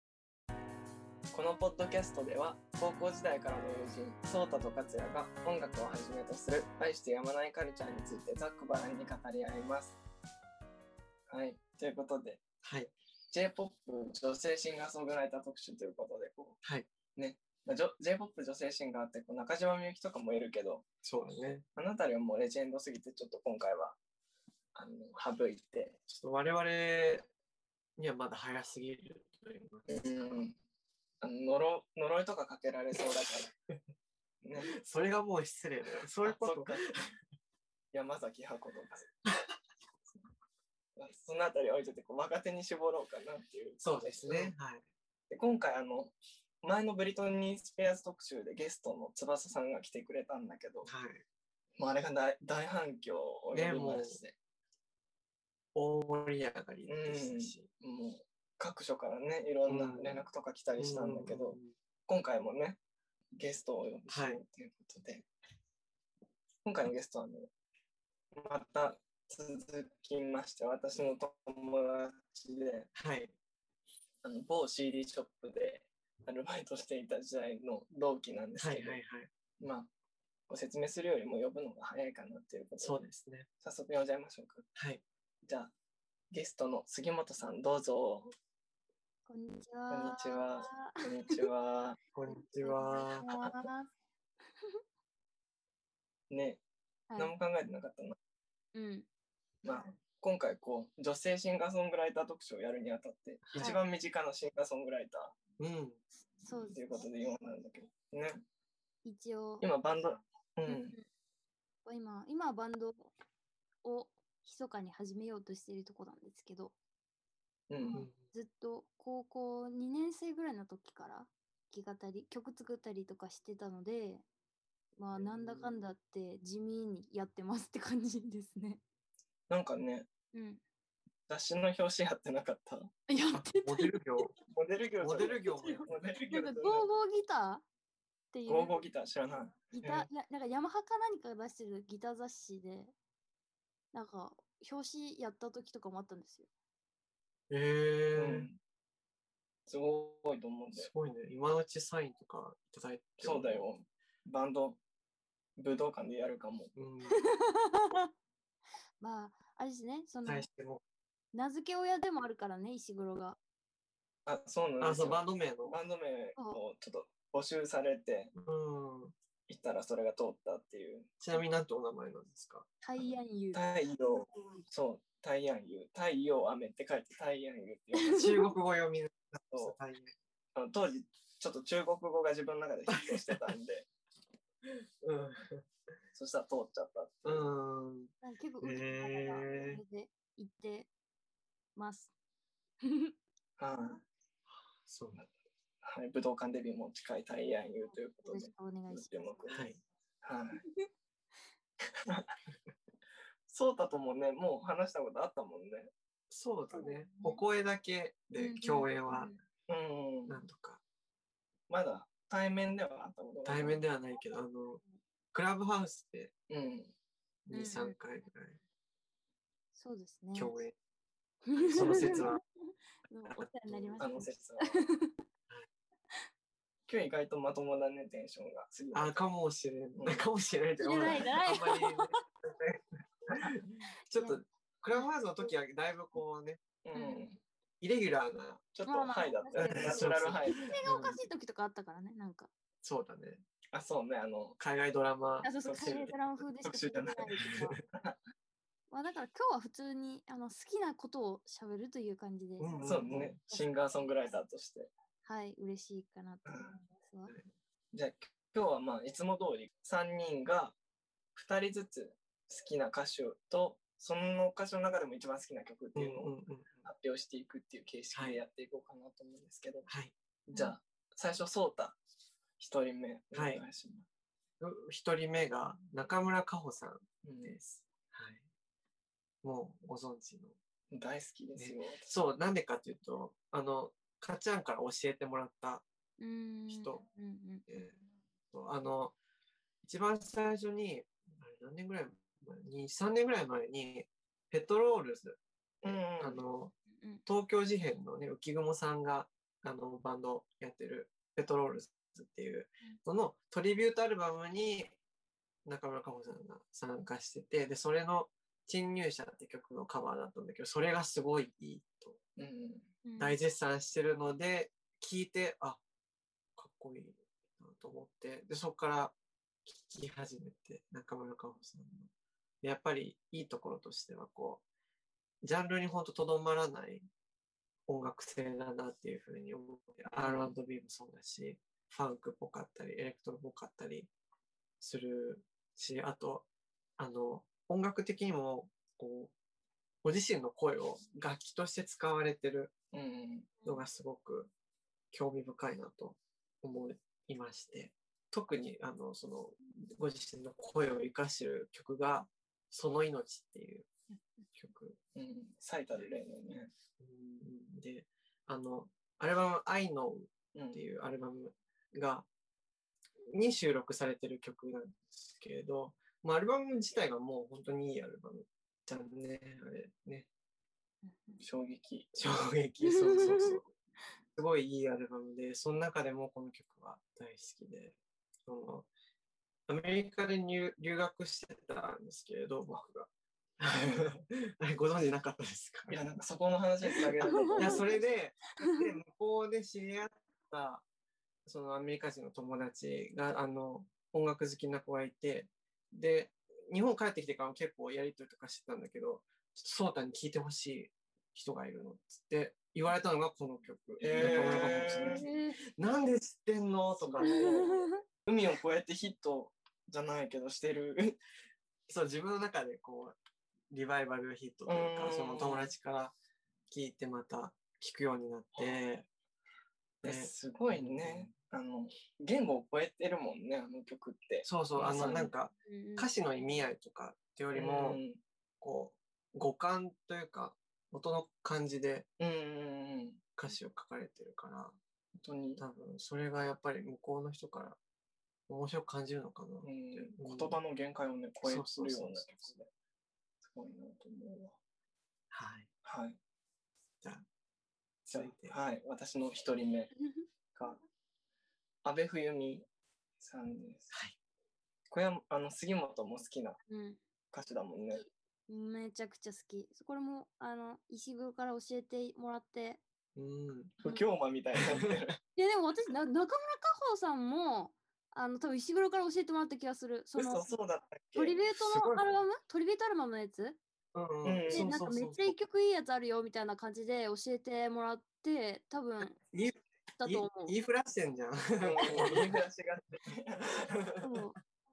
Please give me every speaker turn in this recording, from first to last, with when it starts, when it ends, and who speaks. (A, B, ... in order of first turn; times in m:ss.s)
0:01.3-0:10.0 A
0:11.3-0:12.4 A
0:12.6-0:12.9 B
0:13.3-0:16.6 A
0:16.6-0:16.9 B
0:17.2-0:20.8 A
0:21.0-0:21.6 B
0:21.8-0:24.0 A
0:24.7-0:26.0 A
0:26.1-0:27.3 B
0:28.0-0:30.4 B
0:29.9-0:30.6 A
0:31.2-0:33.5 A
0:34.4-0:34.7 A
0:34.6-0:37.1 B
0:36.2-0:36.8 A
0:37.9-0:39.1 A
0:41.0-0:44.5 A
0:43.8-0:44.8 B
0:45.3-0:50.9 A
0:50.8-0:51.2 B
0:51.8-0:54.4 A
0:53.5-0:54.2 B
0:55.7-0:57.7 B
0:56.9-1:02.8 A
0:59.7-1:00.2 B
1:00.8-1:01.7 B
1:03.4-1:05.3 A
1:04.1-1:04.4 B
1:06.6-1:07.5 A
1:08.3-1:12.9 A
1:13.0-1:13.3 B
1:14.2-1:19.0 A
1:18.6-1:19.3 B
1:19.6-1:19.9 A
1:20.5-1:23.0 A
1:22.8-1:23.5 B
1:23.6-1:24.7 A
1:24.8-1:25.0 B
1:25.4-1:25.7 A
1:26.3-1:28.3 A
1:29.2-1:31.4 C
1:29.9-1:32.0 A
1:32.1-1:33.3 B
1:32.3-1:33.9 C
1:36.3-1:36.6 A
1:37.2-1:38.1 A
1:38.7-1:39.1 C
1:39.6-1:45.4 A
1:43.5-1:43.8 B
1:45.6-1:46.0 B
1:46.4-1:46.8 C
1:46.7-1:48.4 A
1:49.0-1:49.6 C
1:49.6-1:51.0 A
1:50.7-1:51.0 C
1:51.8-1:53.1 C
1:53.8-1:56.7 C
1:57.7-1:58.0 A
1:57.8-2:04.2 C
1:57.9-1:58.2 B
2:05.0-2:08.8 C
2:05.1-2:05.8 B
2:09.5-2:10.1 A
2:10.3-2:10.6 C
2:11.3-2:12.9 A
2:13.1-2:14.3 C
2:13.3-2:14.3 B
2:14.5-2:16.9 A
2:15.0-2:15.9 B
2:15.2-2:17.6 C
2:18.3-2:18.8 C
2:18.5-2:20.1 A
2:19.7-2:22.9 C
2:23.9-2:26.5 C
2:27.5-2:28.5 B
2:28.1-2:28.6 A
2:29.7-2:30.9 A
2:30.7-2:33.7 B
2:33.2-2:34.8 A
2:35.6-2:36.7 A
2:36.8-2:37.2 B
2:37.1-2:38.1 C
2:39.0-2:40.5 C
2:40.2-2:40.8 B
2:41.3-2:43.4 C
2:44.2-2:48.3 A
2:44.8-2:45.8 B
2:48.4-2:49.1 B
2:49.5-2:51.1 A
2:51.2-2:52.7 B
2:52.8-2:53.6 C
2:53.5-2:58.4 A
2:58.0-2:58.5 C
2:58.1-3:00.1 B
3:00.5-3:03.9 A
3:02.9-3:03.4 B
3:04.6-3:05.6 B
3:06.1-3:07.5 A
3:07.2-3:09.8 B
3:08.2-3:10.9 C
3:11.8-3:12.1 C
3:12.8-3:13.1 C
3:13.6-3:14.0 A
3:14.8-3:15.2 B
3:15.8-3:19.6 A
3:17.8-3:19.1 C
3:19.5-3:19.8 B
3:20.2-3:20.6 A
3:22.0-3:22.3 A
3:23.5-3:25.9 A
3:26.3-3:29.3 B
3:26.7-3:27.4 C
3:28.4-3:29.4 C
3:29.7-3:30.4 A
3:30.3-3:30.8 B
3:31.7-3:33.8 A
3:33.4-3:34.8 B
3:35.3-3:36.3 B
3:36.5-3:36.9 A
3:37.5-3:38.6 B
3:37.5-3:37.9 C
3:39.7-3:40.6 C
3:40.3-3:40.7 B
3:41.4-3:42.4 C
3:41.6-3:42.3 A
3:41.7-3:42.4 B
3:43.1-3:45.2 C
3:43.2-3:44.1 B
3:44.0-3:44.8 A
3:46.9-3:49.1 A
3:48.9-3:56.6 B
3:50.0-3:50.2 A
3:50.8-3:52.2 C
3:56.8-3:57.4 A
3:56.9-3:57.2 C
3:57.8-3:58.6 B
3:58.7-4:00.7 A
3:58.8-4:02.5 C
3:59.5-4:01.2 B
4:02.8-4:03.4 B
4:03.7-4:04.6 A
4:04.6-4:06.1 B
4:05.4-4:07.8 C
4:05.6-4:06.1 A
4:06.6-4:08.2 A
4:07.4-4:07.8 B
4:08.9-4:12.8 C
4:12.6-4:13.4 B
4:12.8-4:14.9 A
4:15.2-4:17.3 C
4:16.4-4:16.8 A
4:17.9-4:20.8 A
4:21.3-4:29.9 A
4:25.9-4:26.7 B
4:28.1-4:28.4 B
4:29.9-4:30.1 B
4:30.5-4:32.0 A
4:32.6-4:34.0 A
4:33.3-4:33.6 B
4:34.6-4:38.4 B
4:37.2-4:37.6 A
4:39.4-4:40.6 B
4:40.9-4:42.1 A
4:41.6-4:45.8 B
4:46.2-4:47.6 C
4:46.7-4:47.0 B
4:47.7-4:48.0 B
4:48.5-4:49.2 B
4:49.8-4:56.7 B
4:55.8-4:56.4 A
4:57.2-5:05.0 B
5:05.6-5:12.2 B
5:12.4-5:12.9 A
5:13.0-5:13.4 C
5:13.2-5:15.8 B
5:16.6-5:22.1 B
5:22.6-5:24.6 B
5:25.4-5:27.0 B
5:27.9-5:34.1 B
5:30.2-5:30.5 A
5:34.8-5:36.5 B
5:37.0-5:39.3 B
5:40.0-5:42.7 B
5:42.9-5:43.5 A
5:43.6-5:44.5 B
5:45.1-5:53.9 B
5:54.5-5:55.0 B
5:55.1-5:56.7 A
5:57.0-6:02.3 B
6:00.5-6:00.8 A
6:03.3-6:10.3 B
6:11.1-6:11.4 C
6:11.4-6:12.2 A
6:12.2-6:13.7 B
6:12.8-6:13.6 C
6:14.4-6:18.9 B
6:19.7-6:26.0 B
6:23.8-6:24.1 A
6:25.9-6:27.9 A
6:27.2-6:27.9 C
6:27.6-6:30.8 B
6:28.6-6:28.8 C
6:31.4-6:47.6 B
6:44.0-6:45.2 A
6:44.0-6:45.6 C
6:47.0-6:51.2 A
6:47.2-6:48.0 C
6:51.9-6:53.2 B
6:53.7-6:56.1 B
6:54.7-6:55.7 A
6:56.7-6:59.1 B
6:58.5-6:58.8 A
7:00.0-7:05.3 A
7:00.0-7:01.3 B
7:04.4-7:08.0 B
7:05.6-7:06.1 C
7:07.5-7:08.2 A
7:08.6-7:12.1 B
7:12.2-7:13.2 A
7:13.4-7:14.8 B
7:15.2-7:15.6 A
7:15.6-7:17.8 B
7:18.5-7:20.6 B
7:19.6-7:22.7 A
7:21.4-7:22.5 B
7:23.4-7:24.6 A
7:25.3-7:25.7 B
7:25.8-7:26.2 A
7:27.0-7:27.2 B
7:28.1-7:29.9 A
7:28.1-7:28.6 B
7:30.5-7:30.8 A
7:31.8-7:32.7 A
7:33.2-7:33.9 A
7:34.9-7:36.6 A
7:36.7-7:37.0 C
7:37.3-7:38.0 A
7:37.9-7:42.8 C
7:43.2-7:43.7 B
7:43.8-7:45.2 A
7:44.6-7:45.0 B
7:45.4-7:50.4 C
7:50.1-7:51.4 A
7:51.2-7:53.6 C
7:51.5-7:52.1 B
7:53.9-7:55.4 B
7:54.2-7:54.7 A
7:54.5-7:59.2 C
7:59.3-8:02.4 B
8:00.0-8:00.5 C
8:01.6-8:04.0 A
8:03.7-8:04.1 B
8:04.0-8:04.4 C